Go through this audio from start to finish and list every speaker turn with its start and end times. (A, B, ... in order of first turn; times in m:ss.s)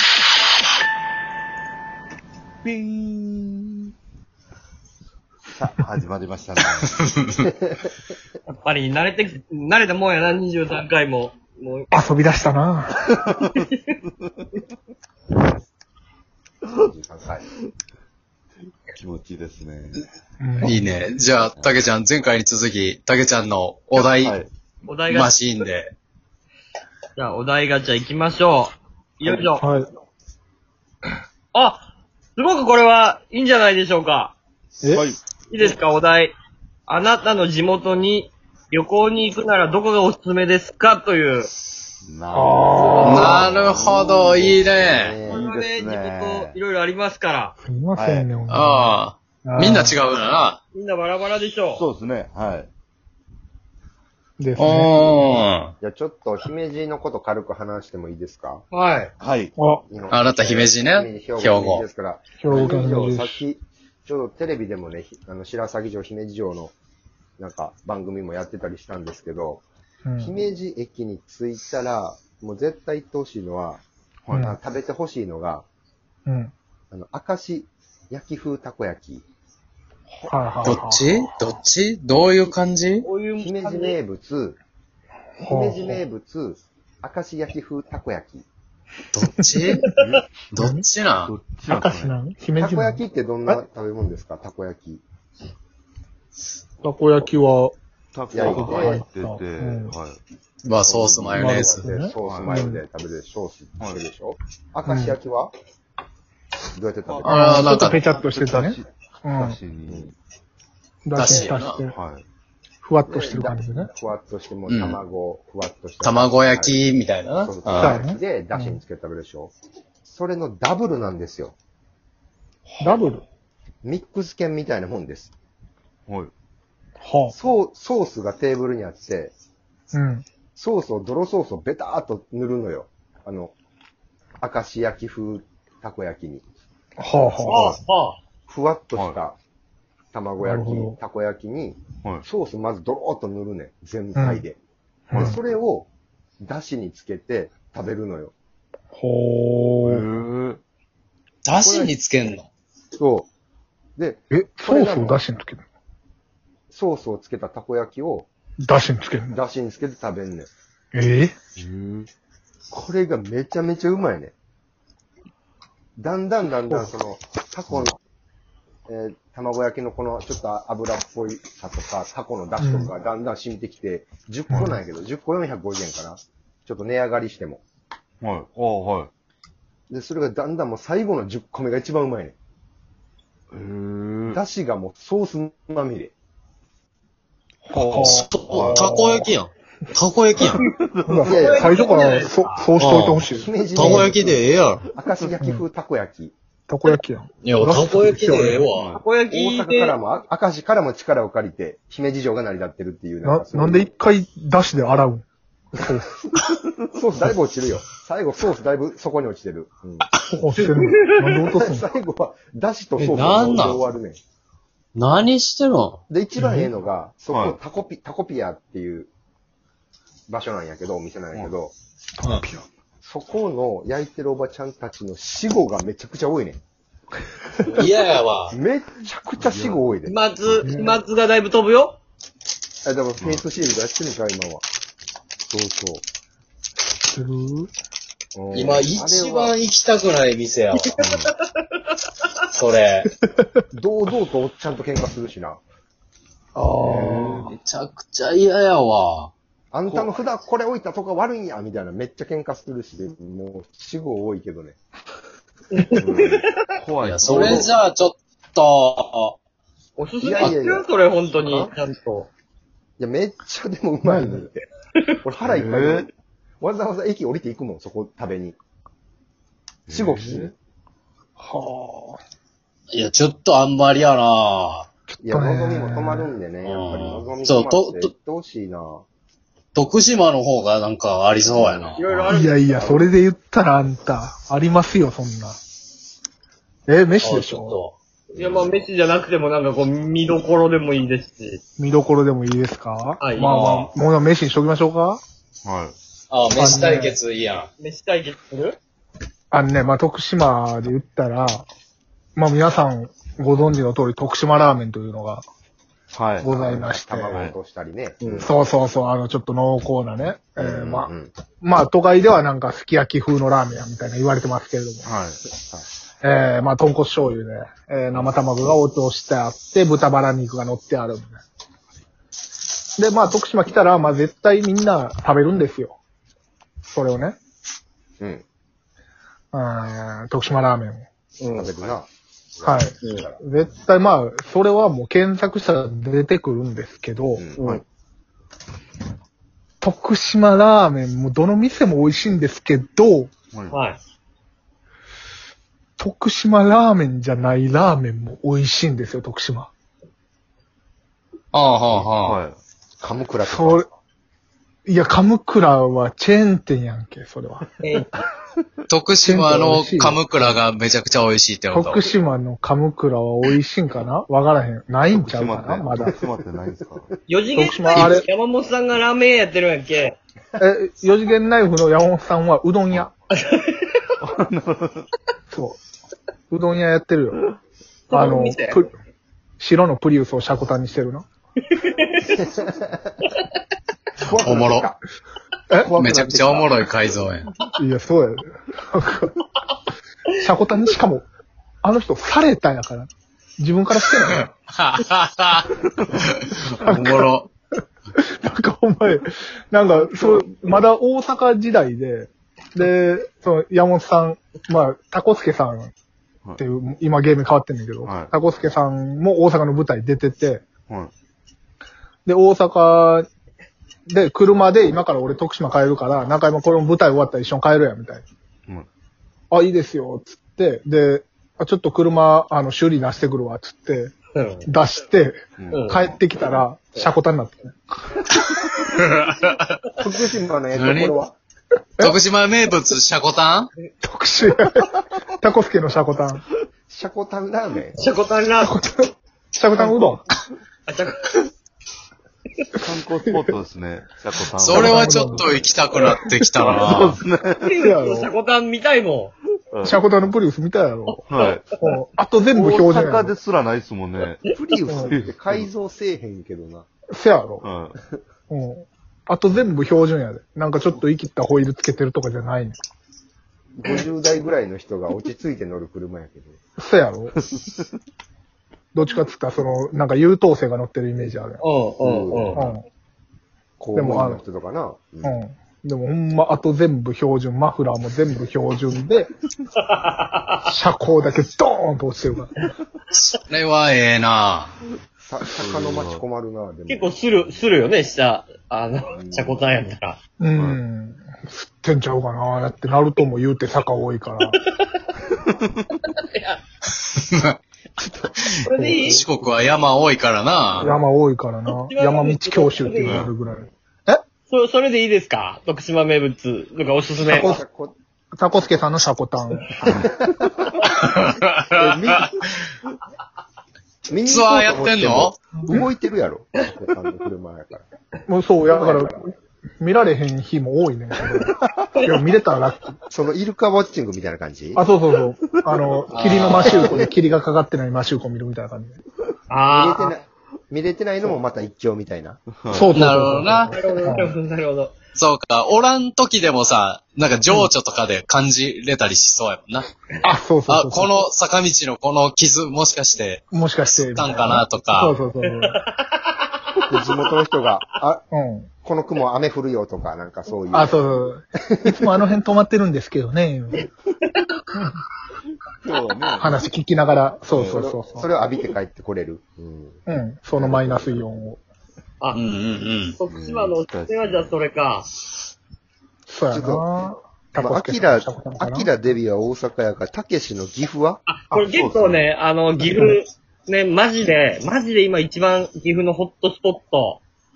0:02.6-0:03.9 A
0:05.5-0:07.1 A
0:08.5-0:11.9 B
0:11.9-0:12.9 C
0:13.3-0:13.9 B
0:16.8-0:17.4 D
0:19.0-0:20.0 A
0:20.4-0:20.7 C
0:20.6-0:24.4 E
0:21.4-0:21.8 A
0:24.0-0:24.5 A
0:24.8-0:25.5 B
0:25.1-0:25.9 E
0:27.2-0:29.6 B
0:29.6-0:29.9 C
0:31.5-0:31.8 B
0:32.4-0:34.3 B
0:34.8-0:35.2 A
0:35.5-0:36.3 B
0:36.9-0:41.5 B
0:42.0-0:46.6 A
0:42.3-0:43.2 C
0:43.0-0:45.2 E
0:44.8-0:45.4 D
0:45.3-0:47.6 B
0:47.6-0:50.0 C
0:47.9-0:48.3 A
0:48.5-0:50.6 E
0:50.7-0:51.8 B
0:51.8-0:52.7 A
0:54.4-0:55.2 C
0:54.6-0:55.7 E
0:55.8-0:58.6 D
0:58.7-0:59.1 B
0:59.2-0:59.5 A
0:59.5-0:59.8 C
0:59.8-1:06.7 D
1:00.1-1:01.8 E
1:02.4-1:03.4 C
1:07.4-1:09.6 D
1:10.0-1:10.3 C
1:10.2-1:15.6 D
1:14.2-1:14.5 A
1:16.2-1:16.5 C
1:16.9-1:19.2 D
1:20.2-1:21.2 C
1:20.6-1:23.1 E
1:23.0-1:24.0 B
1:23.4-1:24.6 D
1:25.4-1:26.0 C
1:25.5-1:28.4 D
1:29.1-1:29.8 E
1:30.5-1:31.3 E
1:30.6-1:30.8 C
1:31.2-1:32.1 A
1:31.7-1:33.6 C
1:32.6-1:35.0 D
1:36.8-1:37.8 C
1:38.1-1:40.2 A
1:38.3-1:39.0 D
1:38.5-1:40.0 C
1:40.6-1:41.9 E
1:40.8-1:45.5 D
1:41.4-1:42.8 C
1:42.2-1:42.7 A
1:44.9-1:45.2 C
1:46.7-1:47.3 D
1:47.0-1:50.1 A
1:47.2-1:48.0 E
1:47.2-1:49.6 C
1:49.8-1:50.1 D
1:51.0-1:51.9 C
1:51.2-1:51.8 E
1:51.4-1:52.2 A
1:52.8-1:53.9 C
1:53.0-1:56.8 D
1:54.7-1:55.0 E
1:56.0-1:58.0 E
1:57.4-2:01.5 D
1:57.8-1:58.8 C
2:02.7-2:03.0 A
2:02.8-2:03.2 C
2:03.8-2:05.3 D
2:06.1-2:06.3 A
2:07.0-2:07.3 C
2:07.3-2:09.3 D
2:09.9-2:10.2 C
2:10.5-2:13.5 D
2:14.4-2:16.4 D
2:17.0-2:17.6 C
2:17.3-2:17.8 D
2:17.4-2:18.2 B
2:18.5-2:19.4 D
2:20.1-2:24.6 D
2:20.4-2:21.0 C
2:25.1-2:25.4 C
2:25.1-2:25.9 D
2:26.4-2:28.3 D
2:28.9-2:30.0 C
2:29.8-2:30.6 A
2:31.4-2:32.5 E
2:31.6-2:31.9 D
2:33.0-2:33.3 D
2:34.0-2:35.2 D
2:34.3-2:35.6 C
2:36.7-2:38.3 D
2:38.6-2:39.4 C
2:39.3-2:40.5 D
2:40.9-2:41.3 C
2:41.6-2:42.1 A
2:42.7-2:44.3 D
2:46.0-2:48.0 D
2:48.9-2:57.6 D
2:52.6-2:52.9 C
2:54.5-2:54.8 C
2:58.2-2:59.1 A
2:59.9-3:02.3 D
3:03.5-3:04.4 A
3:04.3-3:06.1 D
3:07.6-3:08.9 A
3:07.7-3:09.3 C
3:08.0-3:10.6 E
3:10.5-3:12.2 A
3:11.0-3:14.0 C
3:11.2-3:11.7 D
3:11.3-3:12.7 B
3:12.8-3:14.8 E
3:13.3-3:16.3 D
3:16.7-3:18.6 C
3:17.4-3:18.9 E
3:18.6-3:19.0 A
3:18.9-3:20.0 B
3:19.2-3:23.9 D
3:23.2-3:25.2 C
3:25.8-3:26.3 D
3:25.8-3:26.1 C
3:26.9-3:30.1 D
3:30.4-3:31.8 C
3:30.5-3:31.4 B
3:31.5-3:34.2 D
3:33.0-3:33.8 E
3:34.9-3:36.0 E
3:36.1-3:39.1 D
3:36.4-3:36.7 C
3:37.3-3:37.6 A
3:40.3-3:41.7 D
3:42.2-3:42.6 C
3:43.0-3:46.6 D
3:47.6-3:48.6 E
3:48.5-3:50.6 D
3:49.4-3:49.9 A
3:50.0-3:52.0 B
3:50.6-3:51.0 C
3:52.8-3:54.6 D
3:53.2-3:53.4 A
3:55.5-3:56.0 D
3:57.1-3:57.7 C
3:58.3-3:59.6 D
3:58.5-4:00.9 E
4:00.7-4:01.6 B
4:01.0-4:01.3 A
4:02.5-4:03.1 E
4:03.7-4:05.6 D
4:06.6-4:07.2 C
4:06.8-4:07.5 A
4:06.8-4:09.3 E
4:09.7-4:14.8 D
4:09.9-4:10.2 A
4:15.7-4:16.4 B
4:16.0-4:16.4 D
4:16.8-4:17.7 A
4:17.0-4:19.4 E
4:17.3-4:17.7 B
4:20.0-4:22.3 B
4:20.2-4:21.7 D
4:23.0-4:24.6 D
4:24.0-4:24.4 C
4:25.2-4:26.0 D
4:25.5-4:26.1 A
4:26.6-4:28.6 D
4:29.9-4:30.5 A
4:29.9-4:30.5 D
4:31.4-4:32.2 C
4:32.9-4:34.8 E
4:35.1-4:36.3 C
4:35.2-4:39.0 D
4:36.6-4:38.1 E
4:39.7-4:42.3 E
4:41.5-4:42.0 D
4:42.0-4:43.1 B
4:42.3-4:45.6 C
4:46.9-4:47.8 C
4:47.2-4:47.9 E
4:48.3-4:51.6 B
4:51.8-4:55.2 C
4:53.2-4:53.7 B
4:53.4-4:53.9 E
4:55.6-4:55.9 A
4:56.3-4:57.7 E
4:56.6-4:57.2 C
4:57.8-4:58.8 B
4:59.5-5:01.6 C
5:02.4-5:05.4 C
5:06.1-5:06.5 A
5:06.4-5:07.4 C
5:06.4-5:08.5 D
5:08.4-5:15.1 C
5:10.6-5:11.3 D
5:15.0-5:15.4 A
5:15.5-5:15.8 D
5:16.2-5:21.4 C
5:23.0-5:26.0 C
5:26.8-5:27.4 C
5:29.5-5:31.0 C
5:31.4-5:31.7 B
5:31.5-5:33.4 D
5:32.6-5:37.4 C
5:37.4-5:37.8 D
5:37.6-5:37.8 B
5:39.8-5:43.3 C
5:43.7-5:44.0 B
5:46.0-5:49.7 C
5:51.5-5:52.4 E
5:52.0-5:52.6 A
5:53.0-5:53.9 D
5:53.4-5:53.8 C
5:54.8-5:57.6 C
5:57.8-5:58.1 B
5:58.9-6:02.0 E
5:59.2-6:00.2 C
6:01.7-6:06.1 C
6:05.1-6:07.1 A
6:06.0-6:06.5 D
6:07.3-6:10.2 B
6:07.5-6:08.2 C
6:10.6-6:13.1 C
6:13.3-6:13.8 B
6:14.2-6:15.1 A
6:15.5-6:15.8 C
6:16.5-6:17.4 C
6:18.1-6:18.8 B
6:18.1-6:18.9 C
6:19.6-6:21.2 C
6:21.7-6:22.4 B
6:24.2-6:25.0 D
6:24.3-6:24.9 E
6:25.8-6:26.7 D
6:25.9-6:27.5 E
6:27.8-6:29.3 C
6:30.4-6:31.2 C
6:31.8-6:34.5 C
6:34.3-6:37.5 E
6:36.8-6:37.3 C
6:38.2-6:45.9 C
6:46.6-6:50.6 C
6:48.0-6:48.3 A
6:52.2-6:53.2 C
6:54.1-6:58.2 C
6:59.5-7:04.1 C
7:04.3-7:04.7 B
7:04.6-7:07.7 C
7:05.6-7:06.1 A
7:05.7-7:06.1 B
7:09.0-7:09.8 E
7:10.0-7:11.4 D
7:10.7-7:11.1 E
7:12.0-7:13.7 E
7:14.0-7:16.4 C
7:16.9-7:18.0 D
7:18.0-7:18.7 B
7:18.6-7:20.2 C
7:20.9-7:21.4 B
7:22.8-7:25.6 A
7:24.6-7:27.2 E
7:24.7-7:25.4 C
7:26.6-7:27.7 A
7:27.6-7:29.3 B
7:27.8-7:28.3 C
7:29.7-7:30.0 A
7:29.8-7:31.2 C
7:31.1-7:31.9 B
7:31.3-7:31.7 A
7:31.8-7:33.3 C
7:32.5-7:35.7 A
7:34.5-7:36.9 D
7:34.9-7:35.2 C
7:37.1-7:37.6 C
7:37.6-7:38.0 A
7:38.5-7:42.8 C
7:43.8-7:46.6 D
7:46.8-7:47.3 C
7:47.4-7:47.8 A
7:48.9-7:51.6 C
7:51.6-7:52.6 B
7:52.0-7:52.8 D
7:52.6-7:52.8 C
7:53.8-7:55.4 D
7:53.9-7:54.4 C
7:55.2-7:59.3 C
7:59.8-8:00.6 B
8:00.6-8:02.5 C
8:03.1-8:04.7 E
8:05.2-8:07.6 D
8:05.5-8:06.2 A
8:06.9-8:10.2 B
8:09.1-8:09.6 D
8:10.4-8:14.6 C
8:10.5-8:10.8 A
8:16.0-8:16.6 B
8:18.0-8:18.3 D
8:18.5-8:21.0 E
8:18.6-8:19.2 B
8:18.7-8:19.2 C
8:20.8-8:24.2 C
8:21.6-8:23.3 B
8:23.0-8:23.3 A
8:24.5-8:27.6 B
8:27.2-8:27.9 D
8:28.4-8:29.9 C
8:29.8-8:30.7 D
8:30.9-8:32.2 E
8:31.8-8:32.3 D
8:34.1-8:37.8 D
8:34.2-8:35.3 E
8:38.3-8:43.0 C
8:38.7-8:39.2 D
8:43.1-8:44.8 D
8:44.8-8:49.0 C
8:46.1-8:46.9 E
8:46.4-8:47.1 D
8:49.5-8:50.2 B
8:49.7-8:52.4 D
8:52.5-8:53.0 A
8:52.7-8:54.3 C
8:52.9-8:53.7 E
8:53.7-8:54.9 B
8:55.1-8:59.9 E
9:00.2-9:01.1 C
9:00.7-9:05.2 E
9:03.5-9:05.8 C
9:05.4-9:06.3 B
9:06.9-9:08.2 D
9:08.3-9:08.7 C
9:08.8-9:11.2 D
9:10.7-9:13.8 C
9:11.7-9:12.3 D
9:15.8-9:16.7 A
9:16.4-9:18.2 C
9:17.5-9:18.3 A
9:17.6-9:20.0 D
9:20.0-9:21.6 C
9:20.6-9:21.2 D
9:22.3-9:23.1 E
9:23.1-9:25.1 B
9:23.3-9:24.6 A
9:26.3-9:28.9 C
9:26.5-9:26.9 D
9:27.5-9:31.2 D
9:31.3-9:37.2 B
9:31.6-9:32.3 A